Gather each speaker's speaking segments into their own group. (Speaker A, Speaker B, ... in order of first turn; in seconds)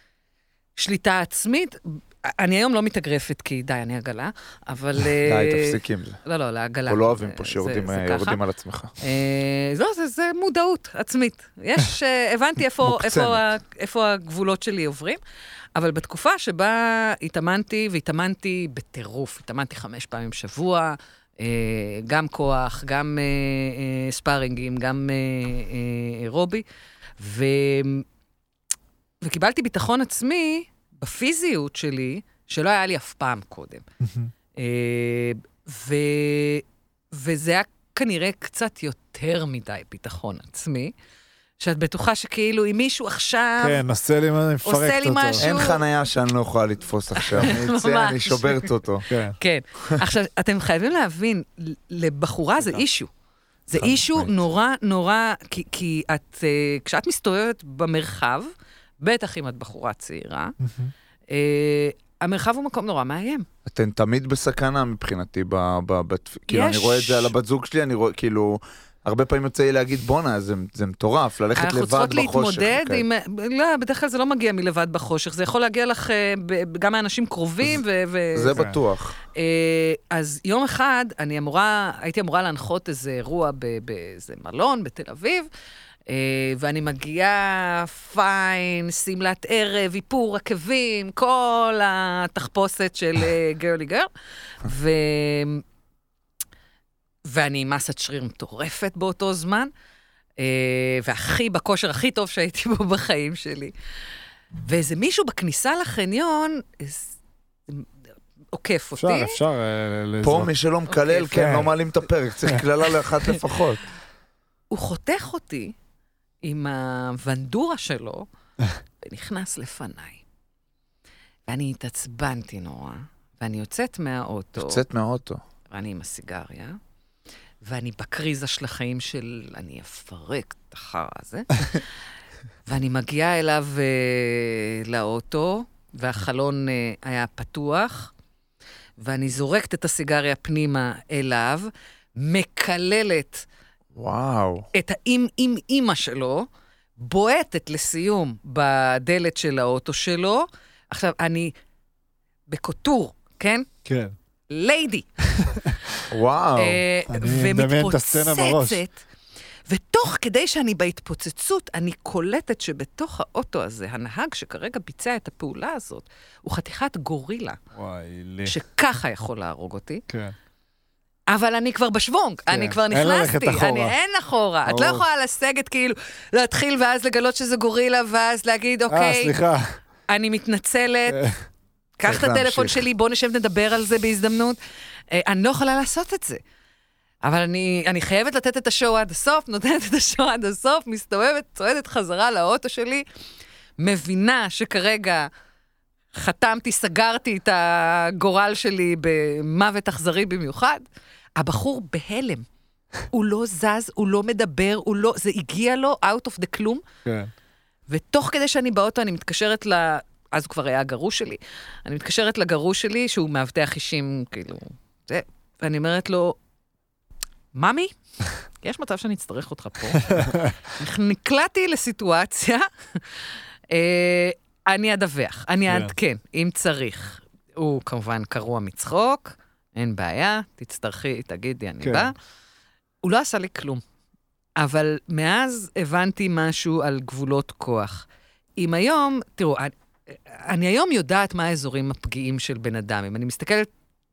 Speaker A: 0.8-8.4, 9.0-15.2, 15.7-26.6, 27.2-28.0, 29.2-33.8, 34.5-40.9, 41.6-43.8, 44.6-45.8, 47.2-48.7, 49.4-53.1, 53.7-58.5, 59.0-60.5, 61.3-63.5, 66.5-67.3, 71.5-78.7, 79.3-85.5, 86.1-94.1, 94.6-95.6, 97.2-99.7, 100.4-103.7, 104.6-107.1, 108.5-109.4, 110.9-111.5, 114.7-115.7, 116.4-118.3, 119.0-120.2, 121.5-124.8, 125.7-126.8, 127.6-131.8, 132.7-138.1, 139.0-143.4, 144.7-146.5, 147.0-151.5, 152.5-153.7, 154.5-155.2, 156.6-159.0, 159.7-167.6, 168.4-170.0, 171.3-179.3, 180.1-181.3, 182.0-184.6, 185.1-186.4, 187.2-193.0, 193.8-195.3, 196.1-200.8, 201.3-202.4, 203.1-206.8, 207.9-216.3, 217.5-217.9, 218.6-232.1, 233.0-233.8, 234.6-238.0, 238.6-243.7
Speaker B: 5.2-6.2, 6.9-8.9, 12.8-13.4, 45.4-49.0, 53.8-54.3, 63.6-73.0, 78.3-79.2, 110.2-113.8, 124.5-125.4, 143.9-144.7, 156.1-156.8, 182.0-182.8
Speaker C: 34.0-34.3, 43.6-45.5, 49.1-49.4, 60.6-60.9, 78.5-78.8, 109.0-110.5, 111.3-111.7, 153.8-154.1, 157.1-158.8, 167.7-168.6, 170.1-170.3, 172.5-173.9, 174.7-175.0, 178.9-179.8, 181.1-181.3, 207.0-207.3, 220.1-220.5, 225.7-225.9, 231.8-232.1